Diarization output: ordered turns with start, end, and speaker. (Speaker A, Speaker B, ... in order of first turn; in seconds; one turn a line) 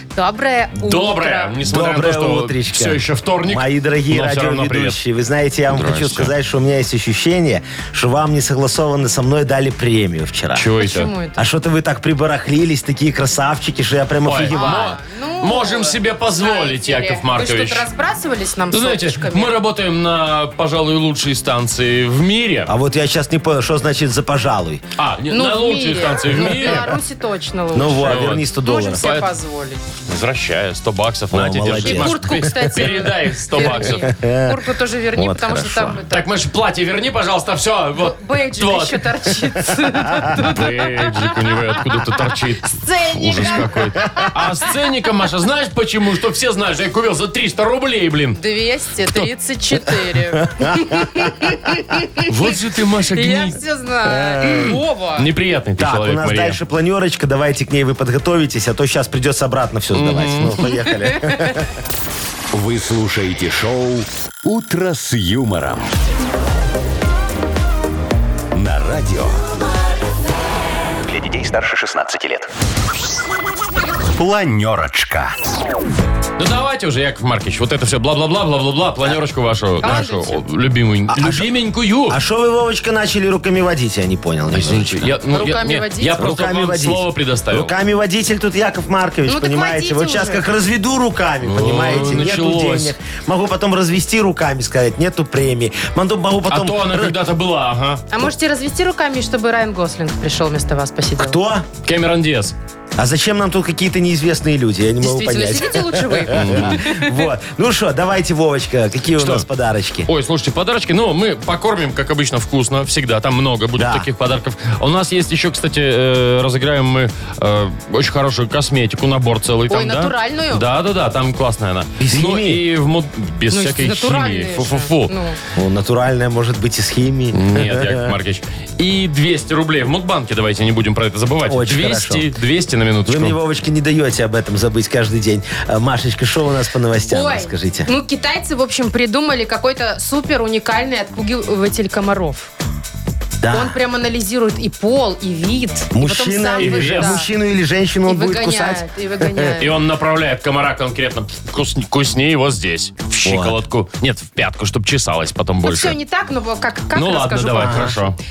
Speaker A: 0.1-1.5
Speaker B: 0.7-5.0
Speaker C: 1.6-10.7
Speaker B: 5.7-6.3
Speaker B: 10.5-11.1
Speaker A: 10.8-11.4
Speaker C: 11.3-14.9
Speaker B: 14.2-17.9
Speaker A: 14.5-19.5
Speaker B: 18.7-22.7
Speaker C: 22.6-24.8
Speaker B: 25.0-26.9
Speaker A: 25.3-29.8
Speaker C: 26.5-26.7
Speaker C: 27.7-29.1
Speaker B: 27.9-28.4
Speaker B: 29.0-29.3
Speaker B: 30.1-34.1
Speaker C: 31.3-32.8
Speaker A: 31.7-36.2
Speaker C: 33.6-36.0
Speaker B: 36.1-39.3
Speaker A: 38.0-41.4
Speaker C: 39.8-40.4
Speaker B: 40.4-48.4
Speaker A: 42.8-44.3
Speaker A: 48.4-52.3
Speaker C: 50.4-51.5
Speaker B: 52.2-53.6
Speaker A: 53.1-55.3
Speaker C: 54.0-54.8
Speaker B: 55.2-56.6
Speaker C: 55.8-61.7
Speaker B: 59.9-60.6
Speaker A: 61.2-61.5
Speaker D: 62.5-65.9
Speaker D: 68.5-69.5
Speaker D: 71.0-72.5
Speaker D: 74.1-75.4
Speaker B: 76.4-82.2
Speaker A: 79.8-80.4
Speaker C: 81.1-81.5
Speaker C: 82.1-85.1
Speaker B: 84.5-87.7
Speaker A: 85.2-86.3
Speaker C: 86.2-97.1
Speaker A: 89.2-90.4
Speaker B: 91.4-92.9
Speaker B: 96.5-98.0
Speaker A: 98.1-101.4
Speaker C: 101.2-101.7
Speaker B: 101.8-102.5
Speaker C: 103.0-110.1
Speaker A: 105.0-107.3
Speaker B: 106.3-106.8
Speaker B: 109.2-109.5
Speaker B: 110.1-125.1
Speaker C: 113.8-114.1
Speaker A: 119.7-120.7
Speaker C: 122.0-122.6
Speaker A: 123.5-125.4
Speaker C: 125.5-128.1
Speaker B: 127.3-133.4
Speaker C: 131.4-132.3
Speaker C: 133.1-137.9
Speaker A: 137.1-142.5
Speaker C: 143.4-143.8
Speaker A: 143.5-147.3
Speaker C: 145.9-149.6
Speaker B: 146.6-147.2
Speaker A: 148.1-149.7
Speaker B: 149.6-156.0
Speaker C: 153.2-153.6
Speaker A: 155.6-157.9
Speaker B: 156.9-158.2
Speaker C: 157.6-158.0